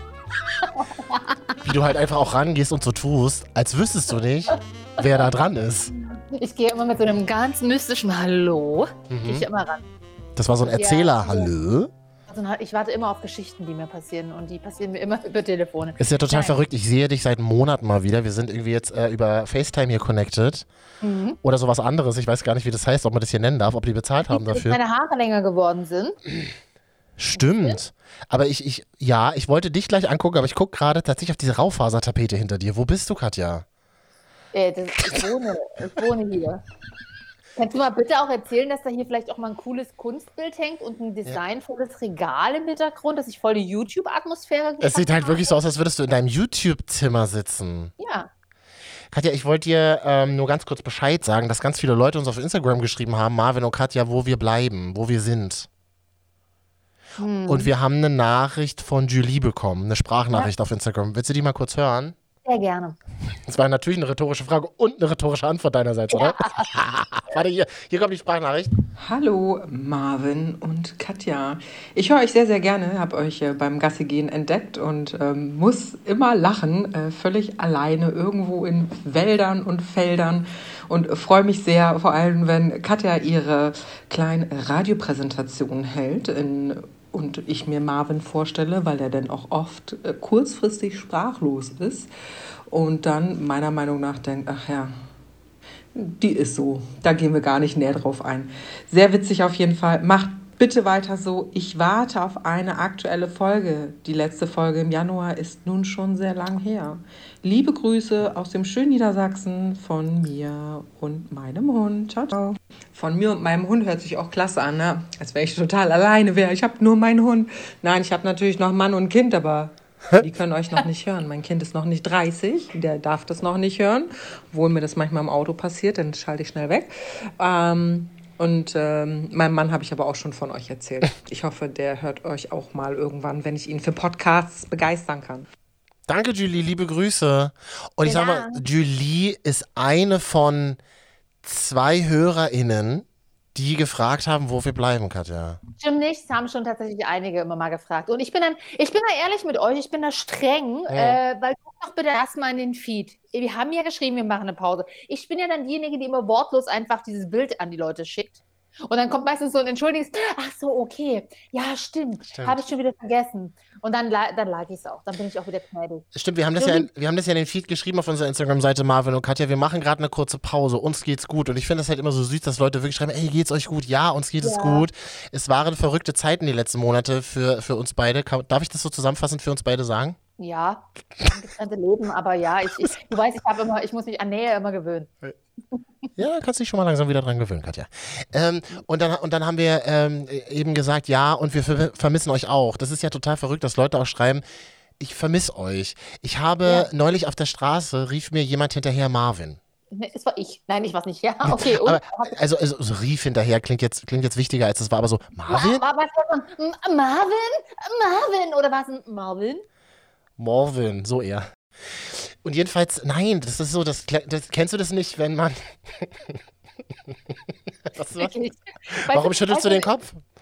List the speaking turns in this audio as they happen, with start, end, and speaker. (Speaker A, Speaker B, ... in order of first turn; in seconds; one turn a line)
Speaker A: 0.6-1.5
Speaker B: 1.6-5.9
Speaker A: 4.5-5.2
Speaker A: 6.3-9.8
Speaker B: 9.1-9.4
Speaker B: 10.3-11.9
Speaker A: 10.6-11.5
Speaker A: 12.3-16.6
Speaker B: 16.0-20.7
Speaker A: 21.0-21.4
Speaker B: 21.4-24.8
Speaker A: 24.2-26.2
Speaker B: 27.2-33.6
Speaker A: 27.3-27.8
Speaker A: 34.5-36.6
Speaker B: 35.0-35.2
Speaker A: 37.5-45.6
Speaker B: 44.8-47.9
Speaker A: 48.0-48.3
Speaker B: 49.1-55.7
Speaker A: 57.2-57.7
Speaker B: 57.5-62.1
Speaker A: 62.4-63.0
Speaker B: 63.5-68.7
Speaker A: 66.1-66.7
Speaker C: 69.0-92.1
Speaker C: 92.7-94.9
Speaker C: 95.9-135.5
Speaker B: 136.1-140.8
Speaker A: 138.0-138.6
Speaker B: 141.4-145.6
Speaker A: 145.8-166.0
Speaker B: 150.9-151.2
Speaker B: 162.3-162.6
Speaker B: 166.1-180.2
Speaker A: 166.6-166.9
Speaker A: 174.4-174.8
Speaker A: 180.4-185.1
Speaker B: 186.2-194.4
Speaker B: 195.0-199.6
Speaker A: 199.9-202.3
Speaker B: 201.4-205.8
Speaker A: 205.5-209.6
Speaker B: 210.4-216.4
Speaker B: 217.1-217.3
Speaker B: 217.9-218.3
Speaker A: 218.2-219.9
Speaker B: 218.9-220.2